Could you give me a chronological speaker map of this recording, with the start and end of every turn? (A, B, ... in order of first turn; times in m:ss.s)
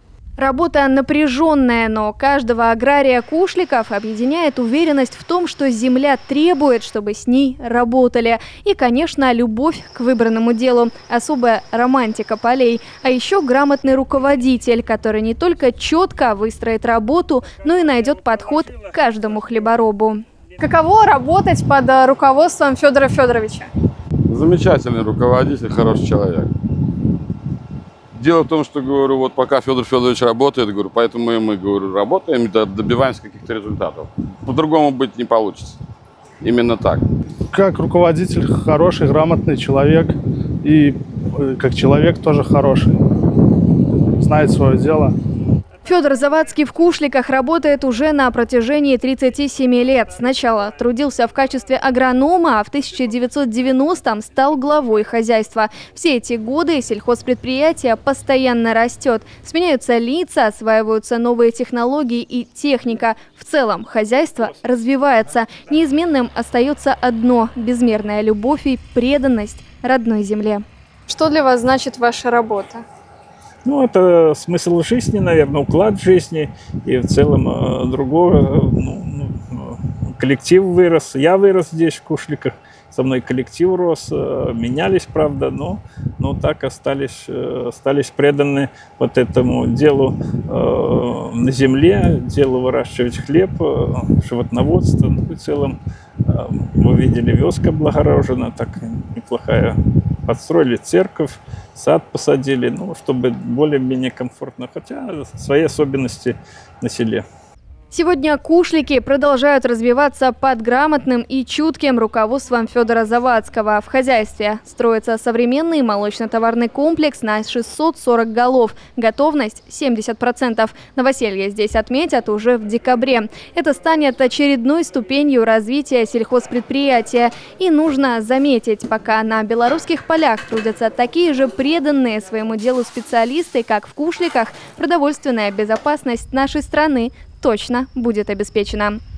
0:00.4-0:23.7 A
0:24.3-0:26.5 B
0:28.1-0:35.8 B
0:36.4-0:37.0 B
0:37.5-0:43.0 C
0:44.2-0:45.2 C
0:45.8-1:12.8 A
1:13.6-1:47.2 D
1:47.9-2:19.0 A